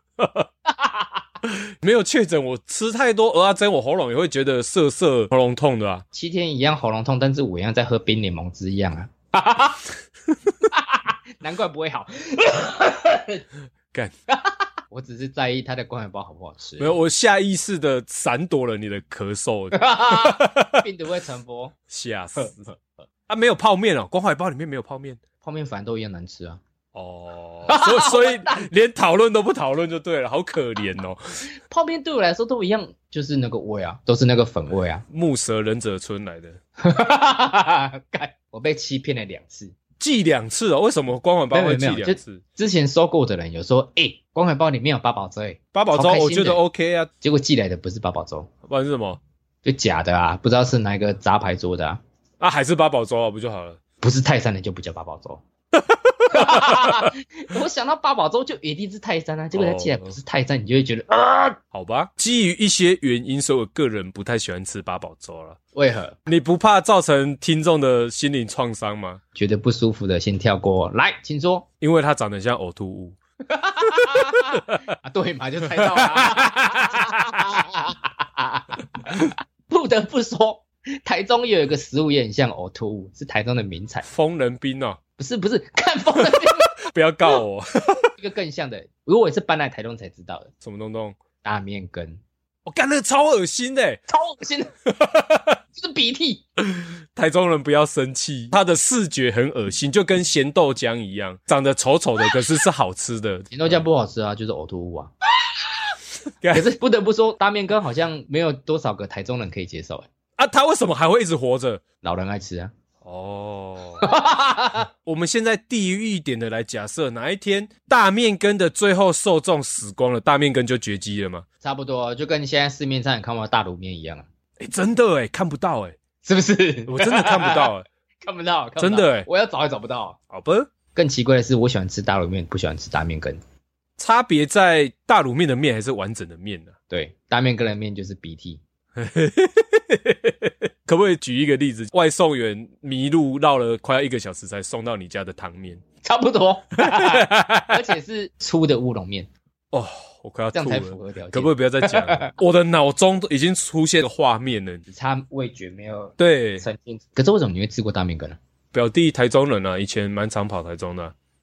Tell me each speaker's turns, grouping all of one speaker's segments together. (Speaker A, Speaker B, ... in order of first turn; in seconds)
Speaker A: 0.2-0.5, 1.4-6.0, 16.8-20.8, 21.9-22.7, 23.3-25.2, 26.9-31.2, 35.1-36.6, 40.0-42.4, 45.7-47.1, 48.7-49.2, 52.4-53.8, 55.8-57.1, 59.5-60.2, 61.7-65.6, 66.3-69.2, 71.8-73.2, 73.9-74.8, 75.8-76.5, 84.0-85.0, 86.9-88.1, 90.6-91.2, 92.7-94.0, 94.9-95.6, 96.7-103.8, 106.4-106.7, 110.4-111.8, 113.0-114.1, 115.0-121.4, 124.6-126.0, 126.9-127.9, 128.8-129.3, 130.3-130.7, 134.0-136.7, 139.0-145.8, 146.8-147.8, 149.7-154.8, 156.2-156.7, 158.7-161.1
Speaker B: 0.7-1.1, 6.1-9.8, 10.7-13.4, 14.3-16.9, 19.7-21.7, 22.4-22.8, 25.4-26.6, 27.7-28.7, 31.7-35.0, 36.8-39.7, 41.5-46.6, 47.2-48.5, 49.6-52.0, 54.0-55.4, 56.3-61.6, 65.7-66.2, 69.3-71.7, 73.5-84.0, 85.2-86.8, 88.2-90.5, 91.4-92.2, 94.1-94.7, 95.7-96.4, 103.5-105.1, 106.5-110.1, 112.0-112.7, 114.0-114.9, 121.6-124.2, 126.2-127.7, 128.2-130.2, 130.9-133.4, 136.9-138.6, 146.0-149.3, 150.5-152.3, 154.9-158.4